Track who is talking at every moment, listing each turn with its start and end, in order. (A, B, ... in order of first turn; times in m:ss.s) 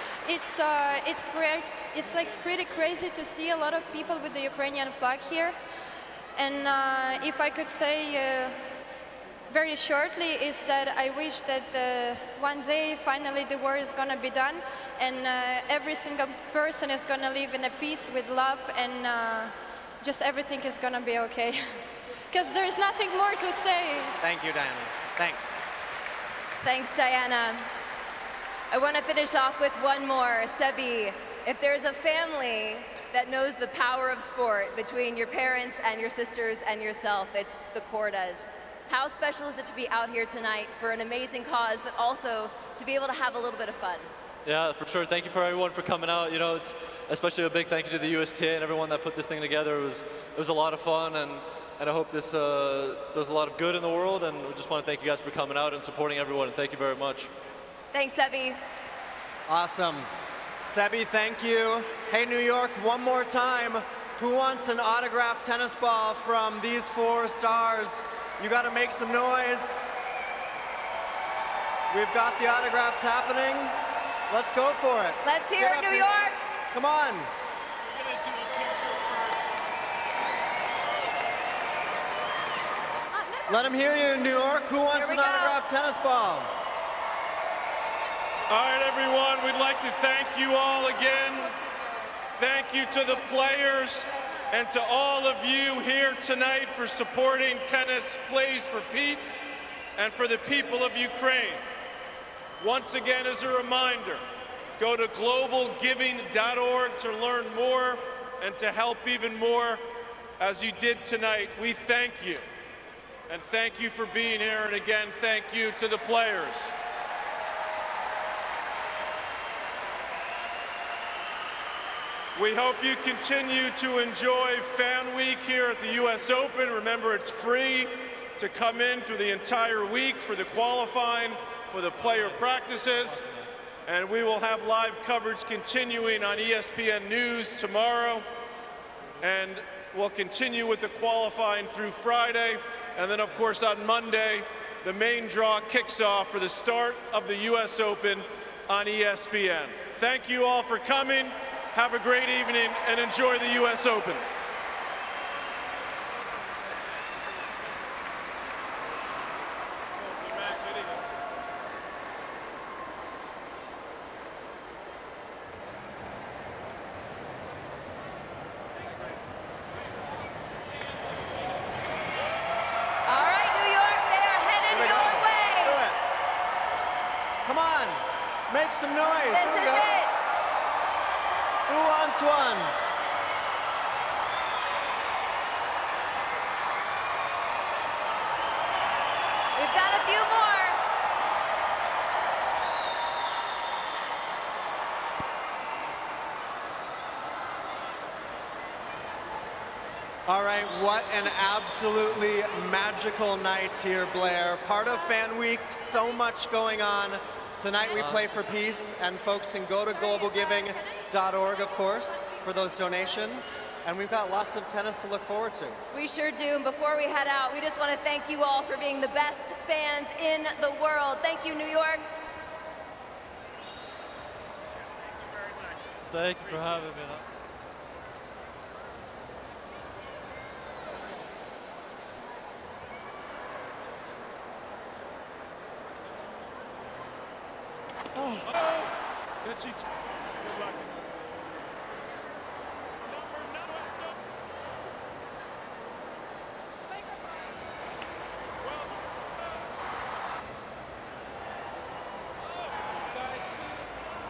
0:00.2-0:05.6 A
0:06.4-0:08.8 A
0:09.5-0:24.3 A
0:24.2-0:25.6 B
0:26.6-0:27.7 C
0:28.7-0:44.1 C
0:44.4-0:57.3 D
0:57.9-0:58.6 C
0:59.5-1:00.1 B
1:00.6-1:09.8 B
1:11.9-1:13.8 B
1:14.3-1:16.2 B
1:15.2-1:16.4 C
1:16.7-1:17.3 B
1:23.2-1:23.5 A
1:23.5-1:26.5 B
1:24.9-1:25.6 C
1:28.5-1:31.5 E
1:31.4-1:32.1 A
1:32.4-1:39.4 E
1:40.0-1:41.6 E
1:42.6-1:44.2 E
1:44.8-1:49.8 E
1:50.4-1:52.5 E
1:53.3-1:56.8 E
2:02.4-2:13.3 E
2:13.9-2:18.3 E
2:19.2-2:34.3 E
2:40.0-2:41.0 E
2:53.1-2:55.9 C
2:54.7-2:55.9 B
2:57.4-3:00.0 B
2:59.3-3:00.1 C
3:01.7-3:02.7 B
3:09.6-3:10.8 C
3:20.3-3:35.8 B
3:28.0-3:28.4 D
3:35.9-3:42.0 C
3:46.1-3:47.2 D
3:58.4-3:58.9 E
3:59.4-3:59.9 E
4:03.1-4:04.1 E
4:08.6-4:09.7 E
4:12.6-4:13.7 E